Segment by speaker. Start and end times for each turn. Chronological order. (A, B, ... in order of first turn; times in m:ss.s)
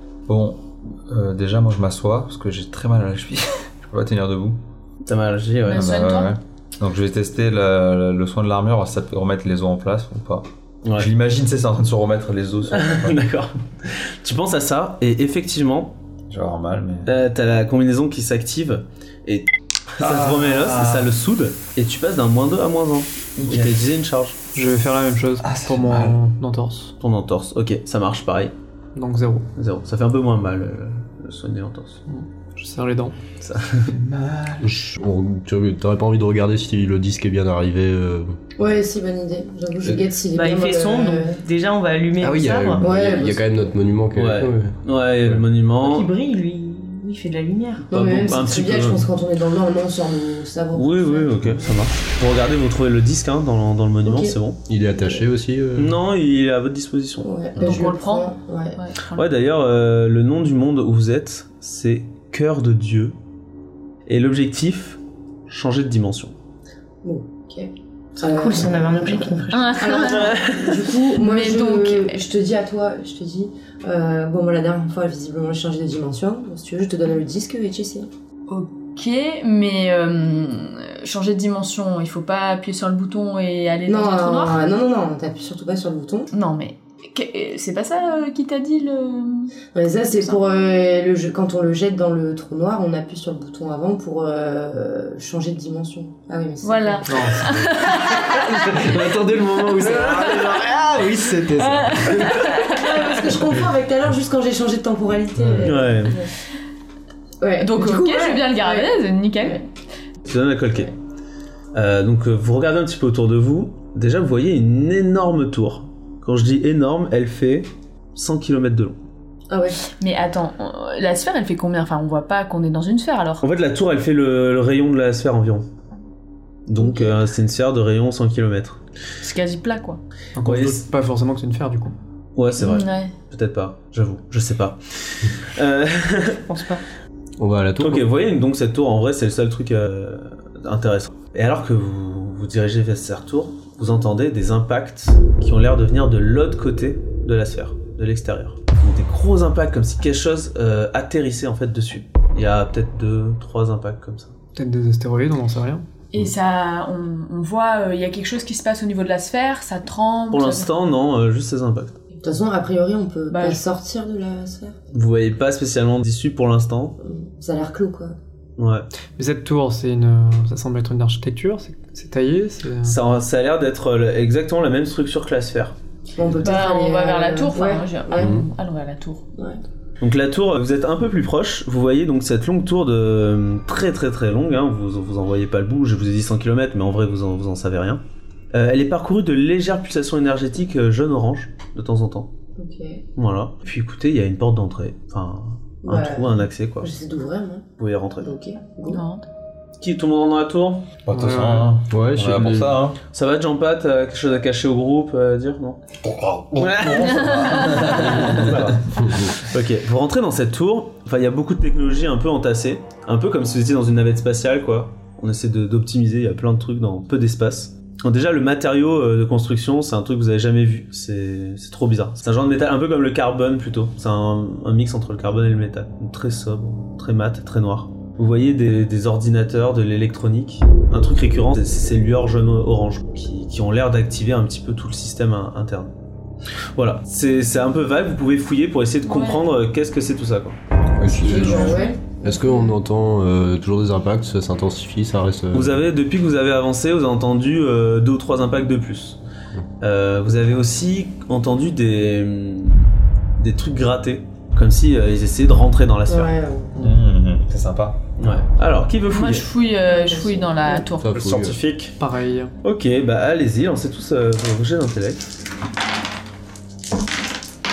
0:00.3-0:04.6 A
0:05.0-0:06.0 B
0:05.7-0:06.3 C
0:05.7-0:13.2 A
0:10.8-0:11.1 B
0:12.7-0:16.0 B
0:16.3-0:17.1 A
0:17.1-0:24.4 B
0:20.0-0:21.1 A
0:23.4-0:23.9 A
0:24.5-0:26.9 D
0:25.4-0:26.2 A
0:27.0-0:28.5 B
0:29.0-0:29.5 D
0:29.6-0:32.0 B
0:32.1-0:33.2 D
0:33.4-0:33.9 B
0:33.9-0:34.7 A
0:34.6-0:38.4 E
0:38.6-0:41.4 F
0:40.3-0:42.8 G
0:42.2-0:45.4 E
0:42.8-0:43.7 F
0:44.2-0:46.1 B
0:45.8-0:47.9 G
0:47.9-0:49.1 B
0:47.9-0:51.8 F
0:50.8-0:54.6 B
0:54.0-0:54.4 F
0:54.7-0:56.0 E
0:54.9-0:55.3 F
0:55.8-0:57.3 B
0:57.2-0:58.8 F
0:57.6-0:59.3 C
0:59.2-1:03.2 B
1:04.1-1:06.4 B
1:07.0-1:18.1 F
1:08.2-1:10.1 G
1:09.5-1:10.5 C
1:10.2-1:10.6 B
1:11.1-1:12.2 C
1:18.5-1:24.6 C
1:23.9-1:26.3 F
1:26.3-1:29.5 C
1:29.7-1:37.4 F
1:30.1-1:30.4 C
1:36.6-1:38.7 C
1:37.1-1:37.6 D
1:38.2-1:42.6 E
1:38.7-1:40.1 D
1:39.8-1:40.7 C
1:41.4-1:43.3 C
1:42.5-1:46.3 F
1:45.6-1:46.2 B
1:47.4-1:49.6 F
1:47.6-1:49.6 C
1:50.3-1:50.9 B
1:51.7-1:59.0 B
1:59.5-1:59.8 F
2:00.0-2:03.4 C
2:03.4-2:05.6 B
2:06.7-2:08.8 B
2:06.8-2:07.2 F
2:09.2-2:10.0 C
2:10.4-2:12.0 D
2:10.4-2:10.8 B
2:12.4-2:16.4 B
2:12.6-2:13.1 C
2:16.4-2:16.8 G
2:17.4-2:18.0 E
2:17.8-2:34.3 B
2:34.6-2:35.8 D
2:36.1-2:40.7 C
2:40.3-2:41.9 B
2:42.2-2:44.8 F
2:43.3-2:43.6 C
2:44.9-2:47.0 B
2:47.0-2:48.2 F
2:48.6-2:48.9 B
2:49.2-2:53.0 D
2:52.8-2:55.7 B
2:56.2-2:58.4 F
2:56.4-2:59.2 C
2:58.2-2:58.5 E
2:59.4-2:59.6 F
3:00.0-3:08.0 B
3:08.5-3:12.3 B
3:12.6-3:13.0 F
3:13.2-3:16.9 B
3:15.8-3:17.7 F
3:17.8-3:18.3 B
3:18.2-3:19.0 F
3:18.9-3:19.2 C
3:19.8-3:20.9 B
3:21.0-3:23.0 A
3:21.1-3:21.7 D
3:21.9-3:22.8 E
3:23.1-3:25.8 B
3:26.1-3:28.8 A
3:26.6-3:28.8 B
3:26.9-3:28.4 C
3:29.3-3:55.9 B
3:56.8-4:00.6 B
3:59.1-3:59.4 C
4:01.0-4:05.8 E
4:01.0-4:01.7 A
4:01.3-4:02.4 F
4:01.6-4:02.0 C
4:05.5-4:09.2 B
4:09.8-4:12.8 B
4:13.4-4:16.3 B
4:16.1-4:16.8 F
4:16.8-4:18.0 A
4:18.2-4:19.5 B
4:19.1-4:21.2 C
4:19.9-4:20.9 F
4:21.0-4:21.6 E
4:21.1-4:22.0 B
4:22.0-4:22.5 D
4:22.6-4:25.3 B